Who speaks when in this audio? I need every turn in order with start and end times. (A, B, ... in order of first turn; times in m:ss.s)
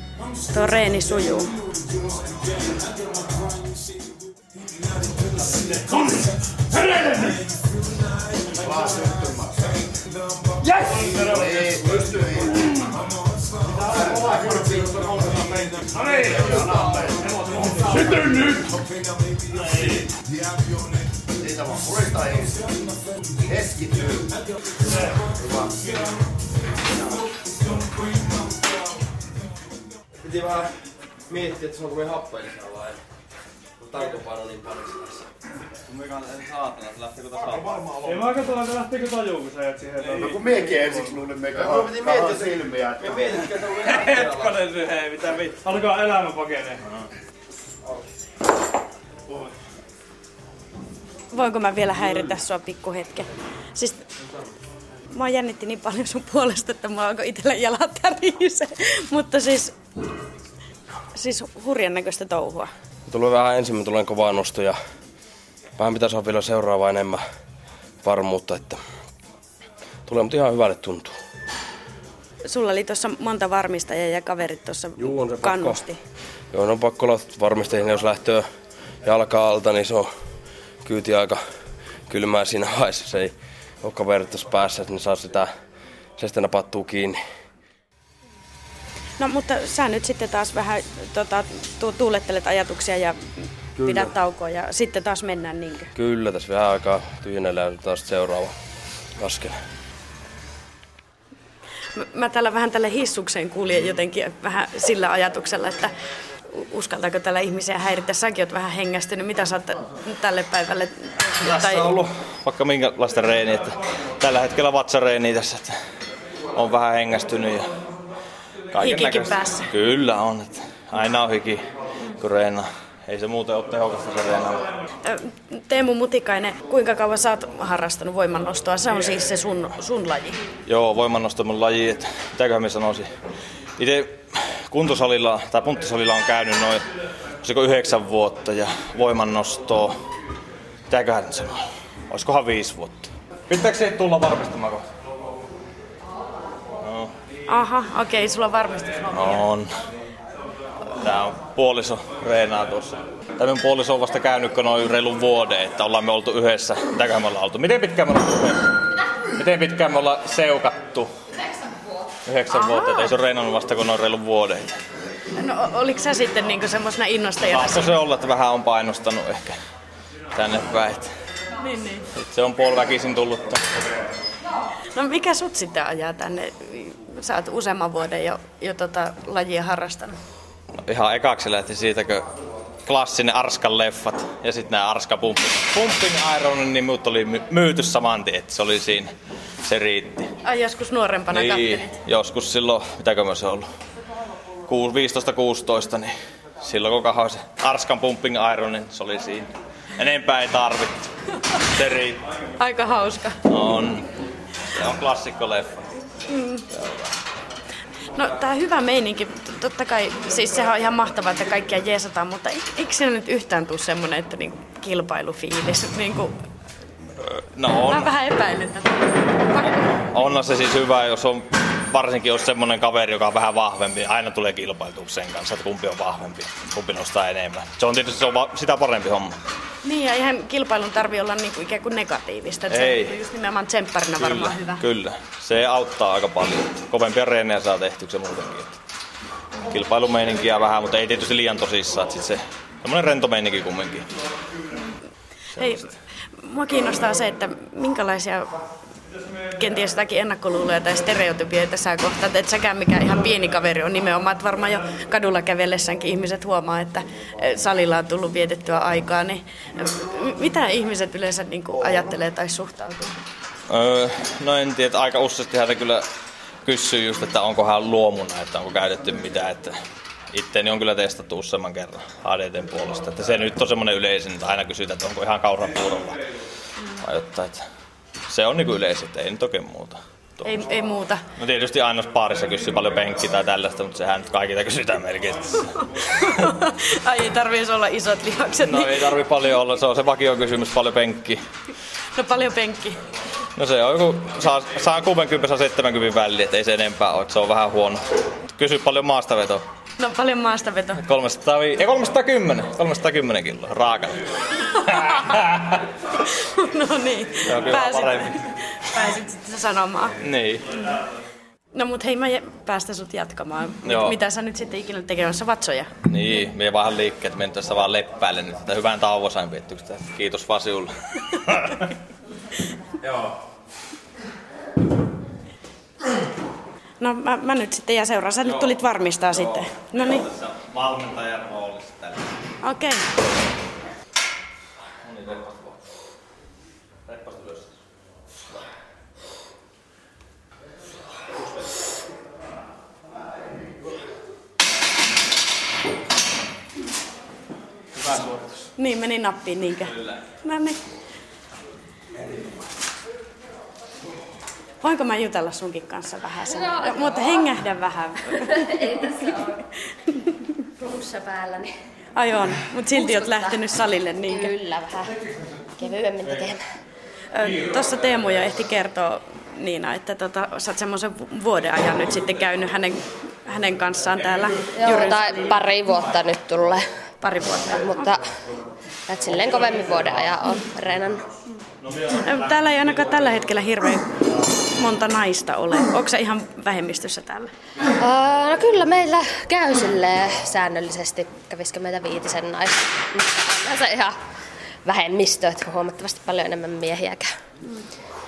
0:00.5-0:01.6 A
0:31.4-0:32.9 B
0:33.9-0:34.8 B
0:35.9-0:37.8 C
0:38.7-0:39.9 D
0:41.6-0:44.0 B
0:45.5-0:46.5 D
0:51.3-0:54.0 A
0:55.1-0:59.8 A
1:01.2-1:02.7 A
1:03.1-1:04.8 B
1:05.8-1:07.2 B
1:08.0-1:08.8 B
1:10.1-1:11.2 B
1:12.4-1:16.0 A
1:15.0-1:15.8 B
1:16.5-1:18.4 B
1:19.0-1:20.1 B
1:20.8-1:21.4 B
1:22.1-1:25.5 B
1:26.2-1:27.2 B
1:29.2-1:33.2 A
1:33.8-1:34.1 B
1:33.8-1:35.9 A
1:36.0-1:38.5 B
1:39.2-1:39.6 B
1:42.0-1:45.9 A
1:46.5-1:51.9 A
1:51.4-1:55.8 C
1:56.6-1:57.7 C
1:58.7-2:01.6 C
1:58.8-1:59.7 A
2:02.2-2:04.7 C
2:05.0-2:10.4 A
2:10.7-2:13.1 C
2:13.8-2:16.9 C
2:17.4-2:20.0 C
2:20.9-2:24.9 C
2:26.8-2:27.1 C
2:27.5-2:29.4 A
2:29.1-2:29.7 C
2:31.0-2:38.8 C
2:39.4-2:41.1 C
2:42.3-2:44.8 C
2:45.4-2:47.9 A
2:47.4-2:49.6 C
2:50.3-2:51.1 C
2:51.6-2:52.0 A
2:52.3-2:53.9 C
2:54.9-3:00.2 A
3:00.8-3:02.3 C
3:02.9-3:09.1 C
3:09.6-3:10.3 C
3:10.4-3:12.0 A
3:11.3-3:13.7 C
3:14.7-3:21.1 C
3:21.7-3:22.2 C
3:22.6-3:23.4 A
3:23.4-3:24.1 C
3:24.7-3:25.9 C
3:26.3-3:26.7 A
3:26.7-3:27.1 C
3:28.1-3:36.4 A
3:37.2-3:38.1 C
3:37.8-3:39.8 A
3:39.6-3:49.4 C
3:49.8-3:54.8 A
3:52.7-3:53.1 C
3:54.2-3:58.8 C
3:59.6-4:04.1 C
4:05.5-4:05.9 C
4:05.6-4:05.9 A
4:06.4-4:08.5 A
4:09.6-4:23.2 A
4:23.7-4:26.1 C
4:26.6-4:29.8 C
4:30.3-4:36.2 C
4:37.0-4:37.6 C
4:38.3-4:40.6 C
4:40.4-4:41.2 A
4:41.4-4:46.0 C
4:46.0-4:49.1 A
4:48.6-4:51.4 C
4:52.2-4:53.0 A
4:53.6-4:58.0 C
4:58.6-4:59.6 C
5:00.0-5:01.0 A
5:01.0-5:05.8 C
5:04.9-5:05.2 A
5:06.2-5:10.2 A
5:07.4-5:08.4 C
5:10.2-5:10.7 C
5:11.7-5:15.9 A
5:13.8-5:14.2 C
5:16.1-5:21.9 C
5:27.0-5:30.3 A
5:30.0-5:32.3 C
5:32.6-5:33.1 A
5:35.0-5:35.8 C
5:37.1-5:37.7 C
5:48.0-5:48.5 C
5:48.8-5:50.8 A
5:54.8-5:58.8 A
5:56.4-5:57.5 E
5:58.4-5:59.6 E
6:00.1-6:00.4 A
6:00.8-6:01.8 E
6:02.2-6:04.5 A
6:02.9-6:03.6 E
6:04.2-6:05.2 E
6:05.8-6:06.6 E
6:07.3-6:15.4 A
6:14.7-6:16.9 E
6:17.2-6:18.0 A
6:17.4-6:18.2 E
6:19.1-6:21.2 E
6:22.1-6:27.5 A
6:27.9-6:34.2 E
6:34.8-6:37.3 E